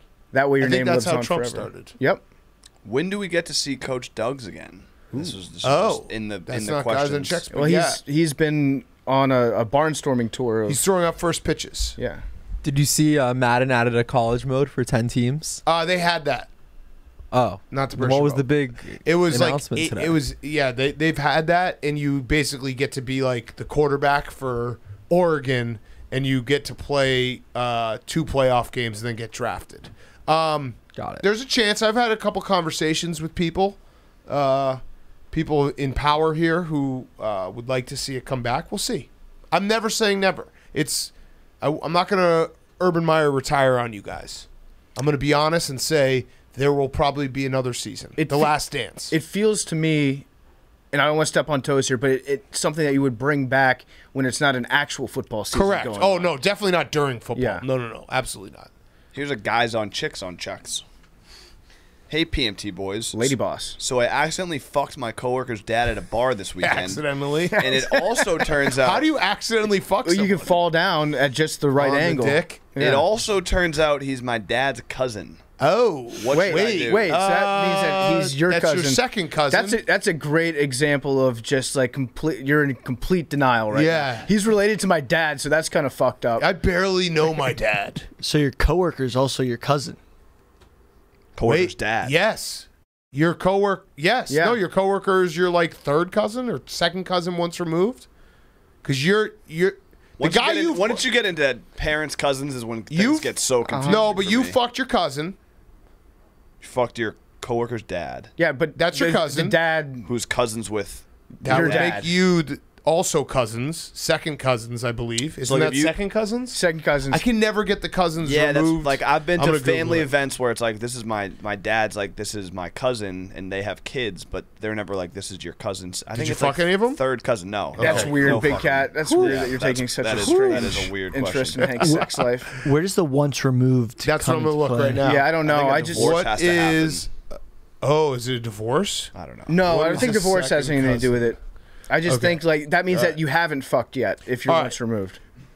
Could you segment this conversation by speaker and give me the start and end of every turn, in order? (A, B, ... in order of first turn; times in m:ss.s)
0:00.3-0:02.2 A
0:00.6-0:02.0 B
0:02.8-0:07.4 C
0:05.6-0:08.0 B
0:07.5-0:10.8 A
0:10.7-0:12.0 B
0:12.0-0:12.2 A
0:12.6-0:15.6 D
0:15.6-0:16.5 B
0:17.3-0:20.2 D
0:17.7-0:34.8 B
0:31.0-0:31.2 D
0:35.3-0:49.1 B
0:48.2-0:48.5 A
0:49.1-0:50.3 A
0:50.9-0:56.3 A
0:55.5-0:58.7 B
0:57.4-0:57.6 A
0:59.1-1:00.8 C
1:02.1-1:07.0 C
1:03.1-1:03.8 A
1:06.6-1:07.6 B
1:07.5-1:08.5 A
1:07.6-1:09.1 C
1:08.8-1:10.5 B
1:10.0-1:13.0 A
1:11.8-1:12.6 B
1:12.8-1:15.4 C
1:15.6-1:19.8 B
1:16.1-1:17.2 C
1:16.3-1:26.5 A
1:23.7-1:24.3 B
1:26.4-1:28.1 B
1:28.2-1:30.0 E
1:31.4-1:32.1 C
1:31.4-1:38.1 B
1:34.3-1:34.6 A
1:38.8-1:41.0 B
1:40.2-1:44.6 C
1:42.9-1:45.4 B
1:43.7-1:44.0 A
1:46.6-1:48.3 C
1:48.4-1:50.1 A
1:48.8-1:49.6 B
1:50.1-1:52.0 C
1:51.4-1:52.1 A
1:51.4-1:56.6 B
1:55.5-1:56.0 C
1:56.5-1:57.2 A
1:57.1-2:00.1 B
1:58.2-2:12.1 C
2:06.1-2:07.0 B
2:07.8-2:08.5 B
2:07.8-2:12.6 A
2:10.2-2:10.8 B
2:11.8-2:12.2 B
2:12.6-2:15.1 E
2:14.0-2:19.1 B
2:15.0-2:16.3 A
2:15.4-2:17.1 C
2:19.2-2:19.9 C
2:19.5-2:25.2 A
2:19.6-2:21.2 B
2:22.1-2:23.2 B
2:24.5-2:24.8 B